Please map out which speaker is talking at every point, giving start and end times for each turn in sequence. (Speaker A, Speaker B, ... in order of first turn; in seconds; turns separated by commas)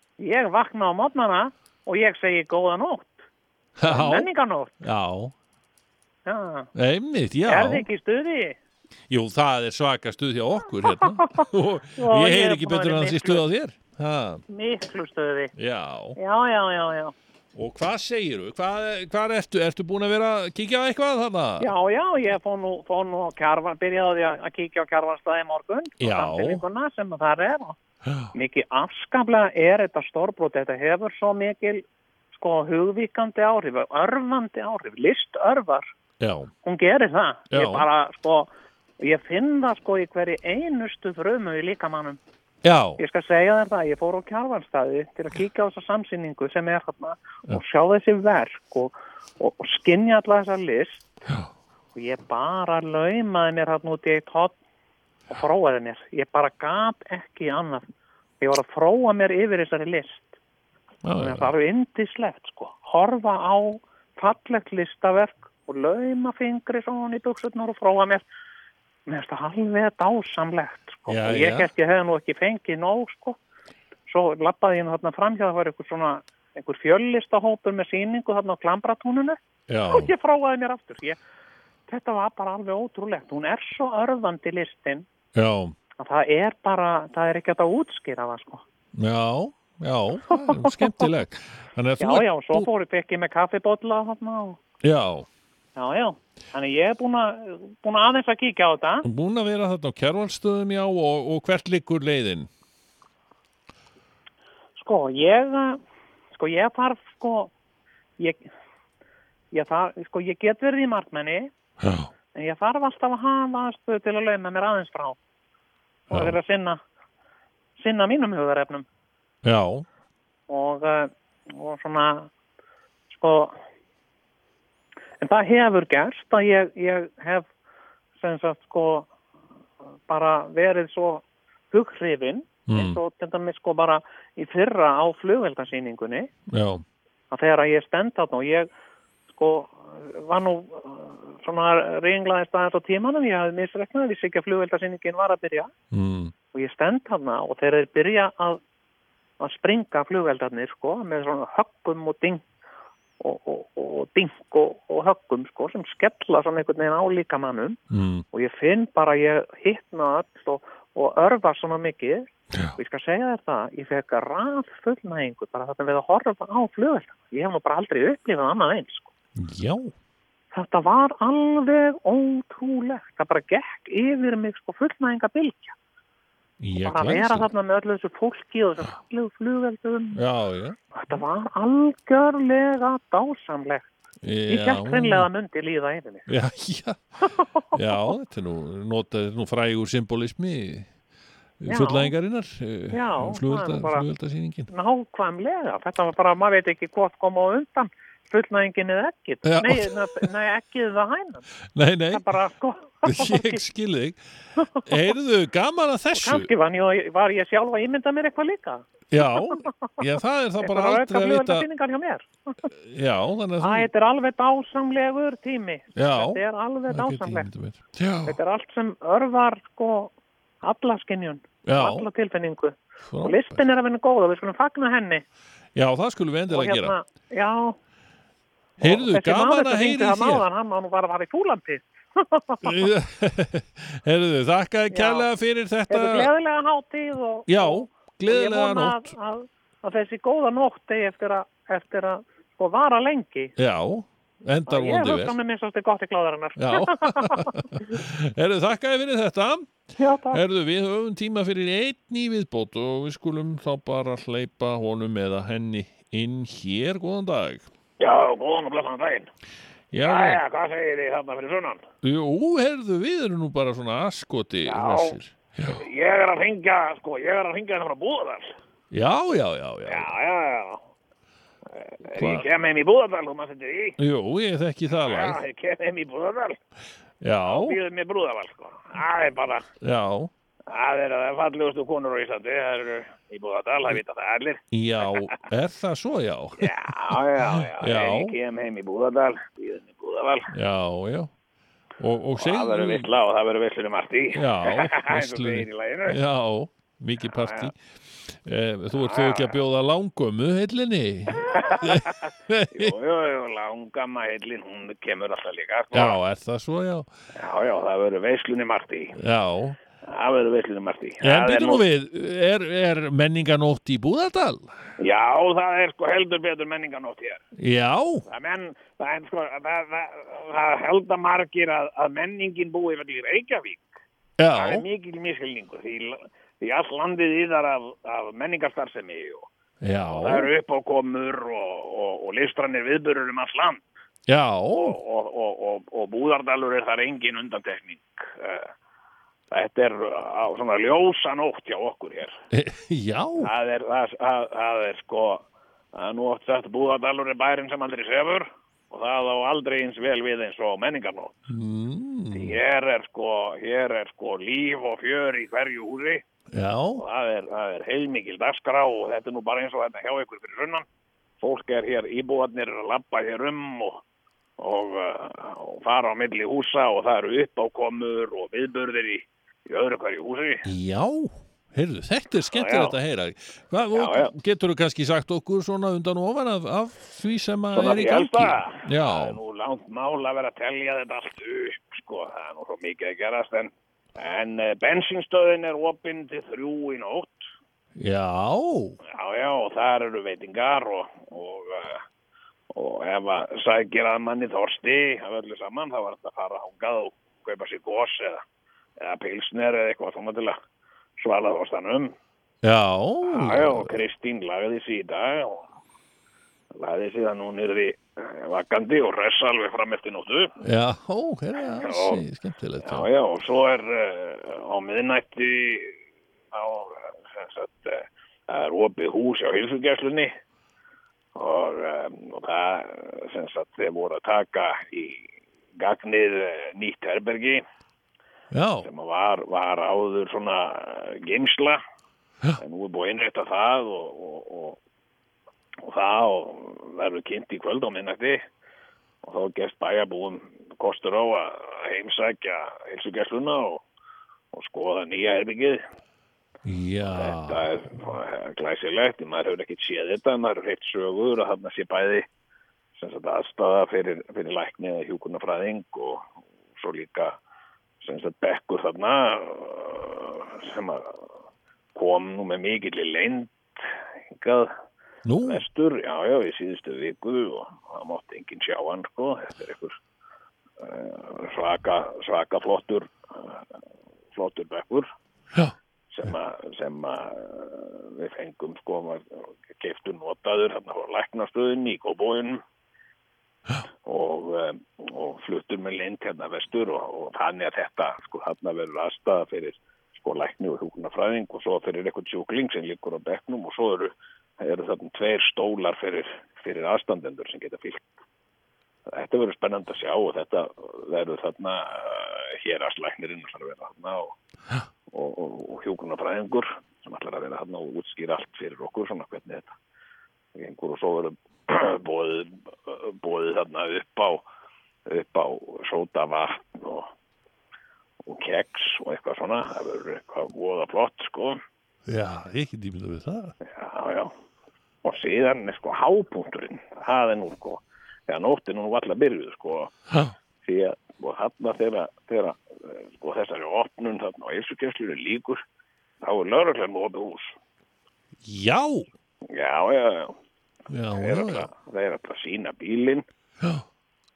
Speaker A: 0.2-3.2, Speaker B: 3.8-4.3, Speaker A: 3.8-4.7, Speaker B: 4.8-5.3, Speaker A: 6.2-6.7, Speaker B: 6.7-7.9, Speaker A: 7.5-8.6, Speaker B: 9.1-14.4, Speaker A: 11.1-11.4, Speaker A: 11.9-13.4, Speaker A: 14.5-15.5, Speaker B: 15.6-16.2, Speaker A: 16.1-17.1, Speaker B: 17.5-21.7, Speaker A: 21.6-27.8, Speaker B: 26.0-26.6, Speaker A: 28.3-35.9, Speaker B: 36.2-36.5, Speaker A: 36.6-42.2, Speaker B: 37.5-37.9, Speaker B: 42.6-43.0, Speaker A: 43.0-51.2, Speaker A: 51.9-54.5, Speaker A: 55.3-57.8, Speaker A: 58.4-60.4, Speaker B: 61.0-61.5, Speaker A: 61.2-68.2, Speaker A: 69.1-73.4, Speaker B: 71.1-71.7, Speaker A: 74.1-79.4, Speaker B: 79.7-80.1, Speaker A: 79.9-81.2, Speaker A: 81.9-85.0, Speaker B: 85.3-85.8, Speaker A: 86.0-88.6, Speaker B: 89.0-92.7, Speaker A: 90.3-90.9, Speaker A: 92.0-94.6, Speaker B: 94.8-95.3, Speaker A: 95.8-99.0, Speaker B: 99.0-102.5, Speaker A: 104.8-105.8, Speaker A: 106.3-107.5, Speaker A: 108.2-108.4, Speaker A: 109.5-111.5, Speaker B: 111.8-112.1, Speaker A: 112.3-115.2, Speaker A: 116.1-116.8, Speaker B: 116.1-116.4, Speaker A: 117.8-118.8, Speaker B: 119.4-119.8, Speaker A: 120.5-122.3, Speaker A: 123.1-123.5, Speaker A: 125.2-127.5, Speaker A: 128.2-129.1, Speaker A: 130.1-136.3, Speaker B: 132.7-133.0, Speaker B: 136.5-136.8, Speaker A: 137.3-138.7, Speaker A: 139.3-145.7, Speaker B: 145.9-146.3, Speaker A: 146.5-148.6, Speaker A: 149.4-152.4, Speaker A: 153.2-157.8, Speaker B: 157.9-158.2, Speaker A: 158.3-169.1, Speaker B: 169.4-169.9, Speaker A: 170.5-175.7, Speaker B: 176.6-177.5, Speaker A: 176.8-180.2, Speaker B: 180.1-181.1, Speaker A: 180.9-183.9, Speaker B: 184.2-185.3, Speaker A: 184.5-186.3, Speaker B: 186.3-187.0, Speaker A: 187.2-188.0, Speaker B: 187.7-190.9, Speaker B: 191.6-194.7, Speaker A: 191.7-192.1, Speaker A: 192.9-194.1, Speaker A: 194.7-201.4, Speaker B: 199.4-200.3, Speaker B: 201.7-202.3, Speaker A: 202.1-203.6, Speaker B: 203.0-204.2, Speaker A: 204.6-205.0, Speaker B: 204.8-206.5, Speaker A: 206.1-208.8, Speaker B: 209.1-211.7, Speaker A: 209.3-209.9, Speaker A: 210.6-212.7, Speaker B: 212.8-213.9, Speaker A: 213.6-217.5, Speaker B: 215.9-218.4, Speaker A: 218.2-225.2, Speaker B: 221.6-222.1, Speaker B: 223.1-223.6, Speaker B: 225.7-226.9, Speaker A: 226.5-227.7, Speaker A: 228.8-232.8, Speaker B: 228.8-230.4, Speaker B: 232.6-236.3, Speaker A: 234.9-235.3, Speaker A: 235.9-243.5, Speaker B: 237.5-239.1, Speaker B: 243.6-245.3, Speaker A: 244.7-247.9, Speaker B: 246.6-257.7, Speaker A: 250.0-250.4, Speaker C: 258.0-259.3, Speaker B: 259.9-260.4, Speaker C: 260.0-261.9, Speaker B: 262.0-265.8, Speaker C: 264.7-265.2, Speaker C: 265.7-268.6, Speaker B: 268.9-270.1, Speaker C: 269.9-270.8, Speaker C: 271.7-274.0, Speaker B: 272.1-272.5, Speaker B: 274.0-275.4, Speaker C: 274.9-276.6, Speaker B: 277.2-277.8, Speaker C: 277.5-279.7, Speaker B: 279.8-280.3, Speaker C: 280.7-285.4, Speaker B: 284.7-288.4, Speaker C: 286.6-290.5, Speaker B: 290.5-291.3, Speaker B: 292.0-293.1, Speaker C: 292.4-296.2, Speaker B: 294.3-302.9, Speaker C: 297.3-297.7, Speaker C: 298.9-299.6, Speaker C: 301.5-306.2, Speaker B: 305.9-307.1, Speaker C: 307.4-309.1, Speaker B: 309.1-309.8, Speaker C: 310.0-311.8, Speaker B: 311.2-314.7, Speaker C: 315.0-317.4, Speaker B: 317.6-318.2, Speaker C: 318.2-323.9, Speaker B: 324.4-324.8, Speaker C: 324.5-329.5, Speaker B: 329.8-330.5, Speaker C: 330.1-333.8, Speaker B: 334.3-335.0, Speaker C: 334.7-338.7, Speaker C: 339.5-342.3, Speaker B: 342.5-343.5, Speaker C: 343.4-351.4, Speaker B: 351.5-352.6, Speaker C: 352.3-356.2, Speaker B: 356.5-357.0, Speaker C: 356.9-360.9, Speaker C: 361.4-364.0, Speaker C: 364.6-370.6, Speaker B: 370.6-379.4, Speaker C: 372.5-372.9, Speaker C: 373.9-374.3, Speaker C: 377.7-387.4, Speaker B: 387.9-389.0, Speaker C: 389.0-392.0, Speaker C: 392.7-398.4, Speaker C: 399.0-400.6, Speaker C: 401.2-402.1, Speaker B: 402.6-404.0, Speaker C: 403.2-405.7, Speaker C: 406.7-410.5, Speaker B: 410.6-413.1, Speaker C: 411.8-412.2, Speaker C: 412.8-415.9, Speaker C: 416.5-420.3, Speaker C: 421.3-427.6, Speaker B: 428.5-428.9, Speaker C: 428.8-431.8, Speaker C: 432.6-434.8, Speaker C: 435.8-438.4, Speaker C: 439.2-443.8, Speaker C: 444.5-445.8, Speaker B: 446.6-447.7, Speaker C: 447.1-452.2, Speaker C: 452.9-457.4, Speaker C: 458.0-461.2, Speaker C: 461.9-464.7, Speaker B: 465.2-465.6, Speaker C: 465.4-470.0, Speaker C: 470.8-473.6, Speaker C: 474.3-475.1, Speaker C: 476.1-482.6, Speaker C: 484.0-498.1, Speaker C: 499.1-504.4, Speaker C: 505.1-509.7, Speaker C: 510.5-514.4, Speaker C: 515.1-517.1, Speaker C: 518.2-521.6, Speaker B: 522.1-523.5, Speaker C: 523.6-524.3, Speaker C: 525.0-529.9, Speaker C: 530.6-535.6, Speaker C: 536.2-537.6, Speaker B: 538.4-539.1, Speaker C: 539.5-540.3, Speaker B: 540.9-541.7, Speaker C: 541.1-543.2